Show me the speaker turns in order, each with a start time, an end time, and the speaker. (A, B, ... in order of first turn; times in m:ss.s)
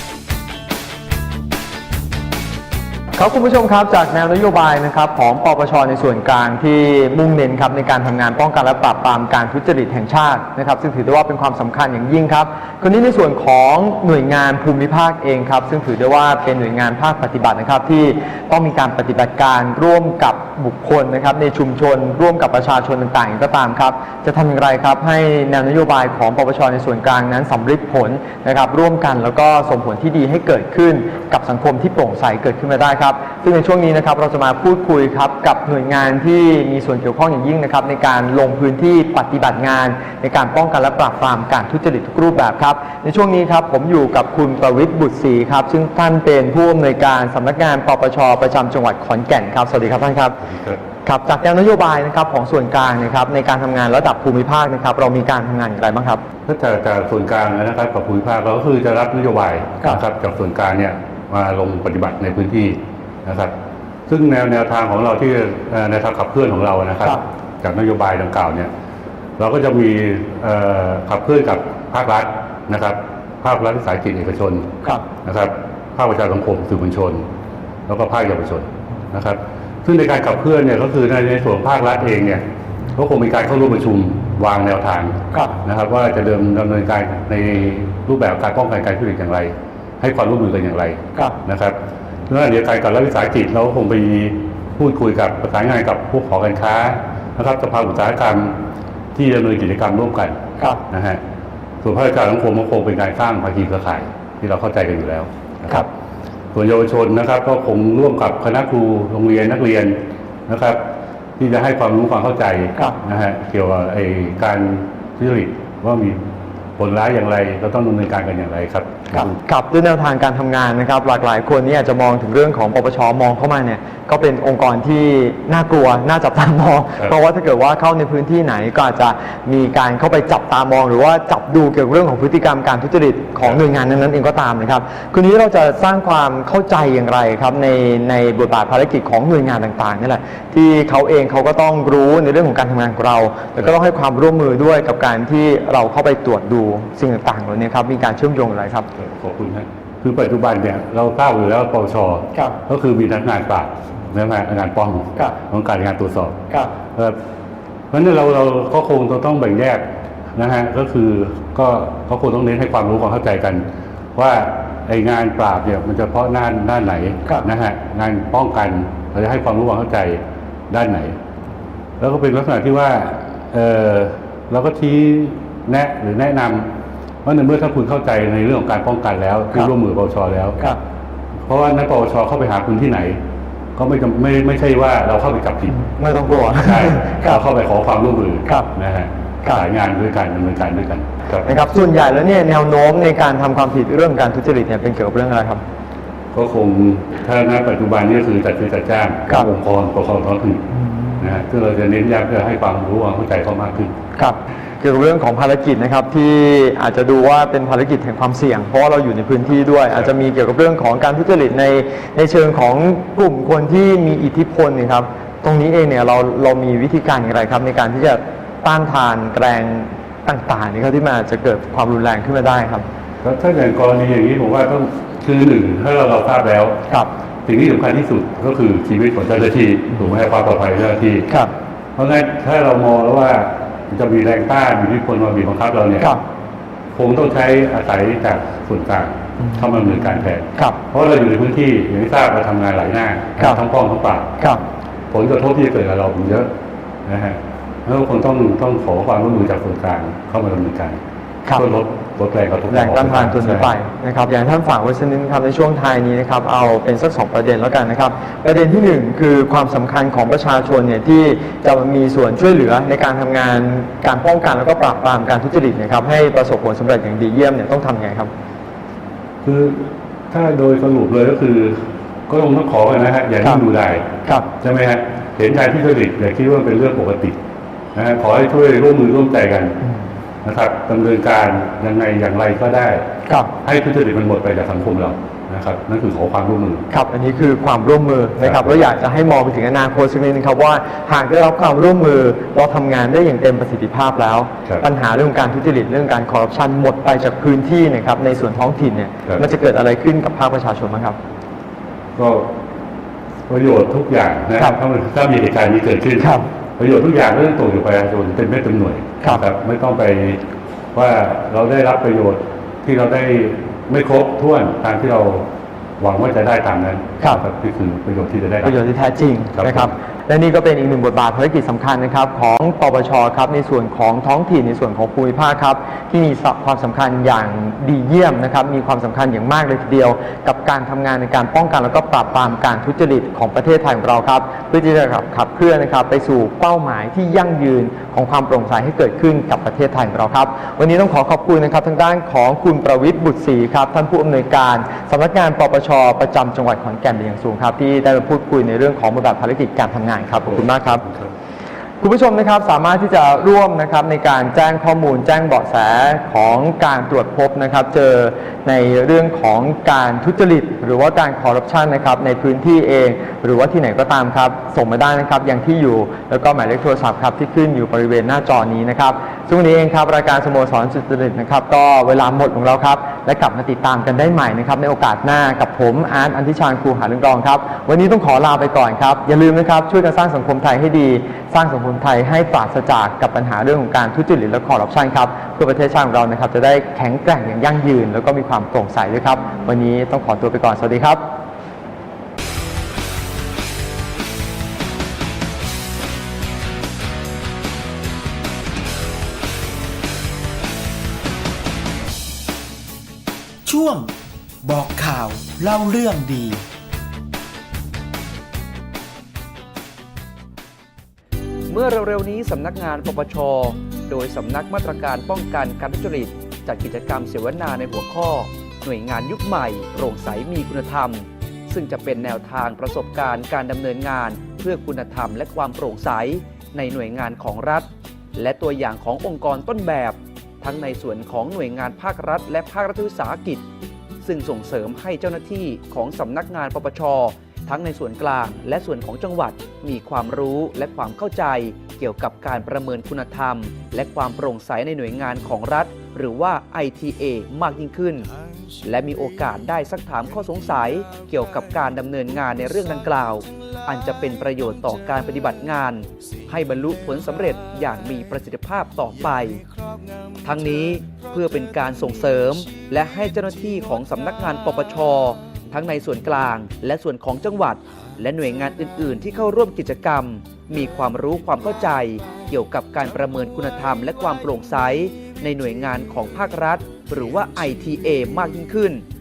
0:03.1-0:50.4 A
0:50.4-0:50.8 B
0:51.0-0:56.2 A
0:56.5-1:03.5 B
1:04.1-1:08.7 B
1:09.4-1:14.7 B
1:15.2-1:17.2 B
1:17.9-1:22.4 B
1:22.9-1:31.8 B
1:32.3-1:38.5 B
1:39.1-1:40.4 B
1:40.9-1:41.2 B
1:41.8-1:45.9 B
1:46.5-1:50.0 B
1:50.5-1:50.8 B
1:51.4-1:56.2 B
1:56.8-1:59.4 B
1:59.1-2:28.9 A
2:29.0-2:36.4 B
2:37.9-2:39.8 B
2:40.4-2:43.6 B
2:44.2-2:51.2 B
2:52.0-2:56.7 B
2:57.2-3:00.6 B
3:01.4-3:03.2 B
3:03.8-3:11.7 B
3:05.9-3:07.0 A
3:11.4-3:15.6 A
3:16.3-3:20.6 B
3:21.2-3:23.9 B
3:24.2-3:42.8 A
3:43.2-3:46.8 B
3:47.4-3:51.3 B
3:52.0-3:56.1 B
3:56.9-4:04.3 B
4:05.1-4:06.5 B
4:07.0-4:11.0 B
4:11.6-4:13.7 B
4:12.7-4:28.3 A
4:29.4-4:34.0 B
4:34.6-4:37.4 B
4:37.9-4:39.8 B
4:40.4-4:43.0 B
4:43.6-4:46.8 B
4:46.9-5:01.2 A
4:48.4-4:48.8 B
5:02.2-5:02.4 B
5:03.5-5:10.4 B
5:06.2-5:06.4 A
5:10.9-5:15.4 B
5:16.0-5:18.8 B
5:18.6-5:51.1 A
5:19.6-5:19.9 B
5:52.0-6:31.4 A
6:43.6-6:46.6 C
6:51.7-7:13.6 D
7:14.2-7:28.3 D
7:28.8-7:39.6 D
7:40.4-7:59.0 D